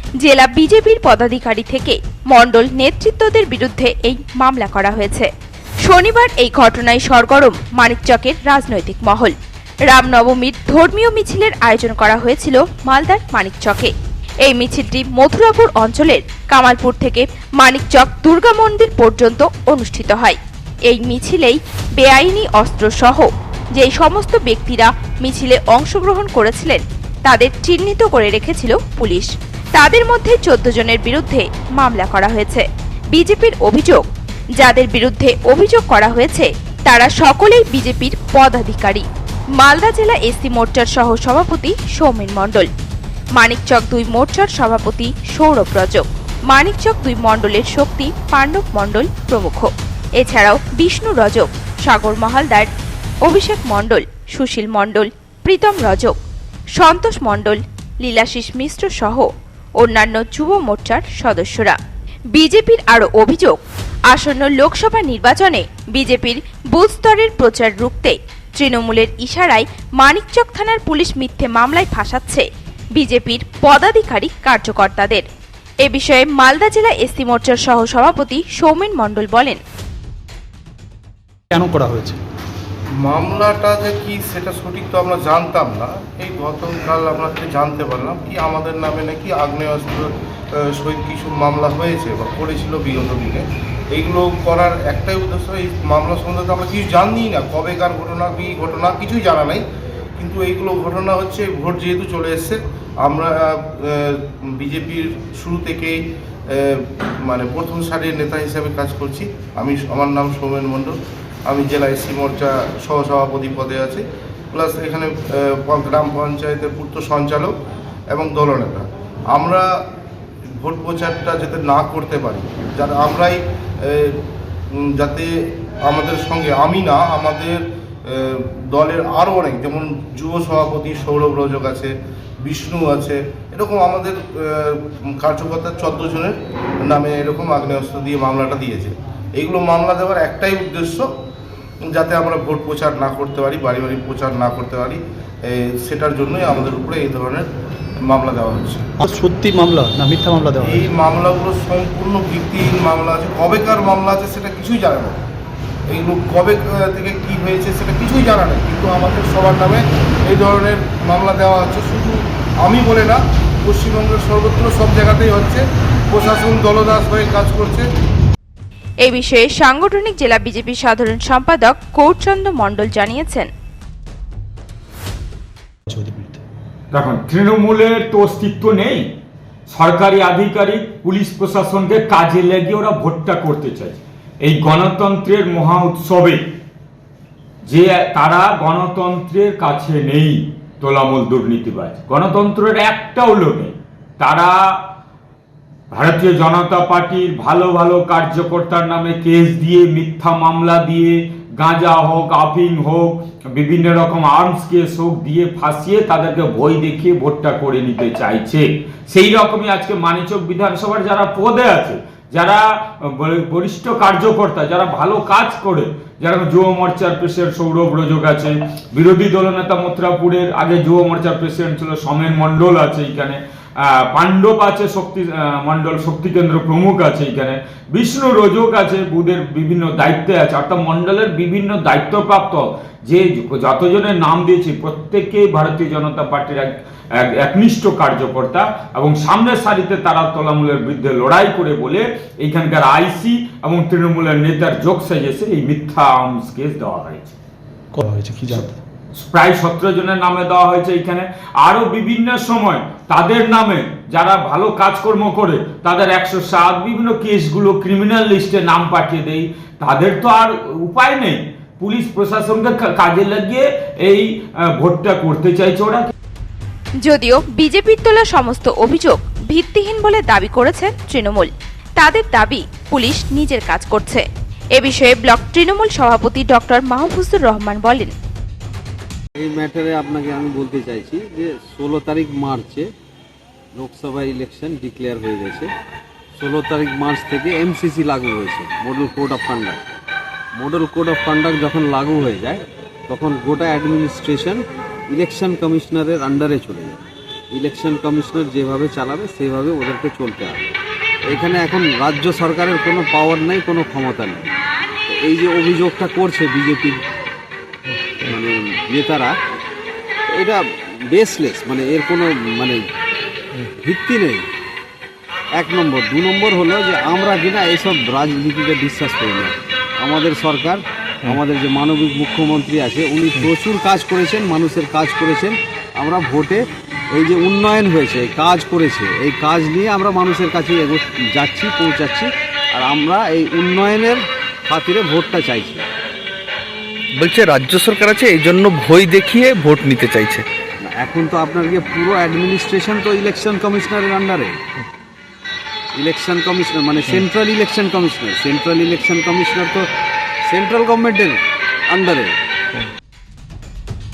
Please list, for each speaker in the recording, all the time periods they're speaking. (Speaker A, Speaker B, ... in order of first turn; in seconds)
Speaker A: 0.2-5.3, 5.8-9.3, 9.9-13.9, 14.4-34.0, 34.6-39.0, 39.6-42.7, 43.4-52.7, 53.2-56.1, 56.8-61.8, 62.3-63.6, 64.1-75.2, 75.8-79.6, 169.0-173.5, 267.0-274.2, 274.8-278.1
Speaker B: 81.5-82.2, 149.0-150.8, 175.9-176.4, 248.0-248.8
Speaker C: 83.0-99.6, 100.2-106.0, 106.5-111.0, 111.5-117.5, 118.1-119.7, 120.6-124.2, 124.7-125.3, 125.8-141.1, 141.8-147.5, 148.0-148.8, 150.6-155.2, 155.9-167.9
Speaker D: 176.9-179.0, 179.7-186.4, 187.7-194.8, 195.9-247.3, 249.2-266.1
Speaker E: 279.4-282.9, 283.7-285.7, 286.4-289.8, 290.6-300.7, 301.2-304.6, 305.1-307.0, 308.2-309.3, 310.3-312.8, 313.5-314.5, 315.5-335.9, 340.9-344.6, 345.9-349.9, 350.4-352.4
Speaker F: 337.2-340.4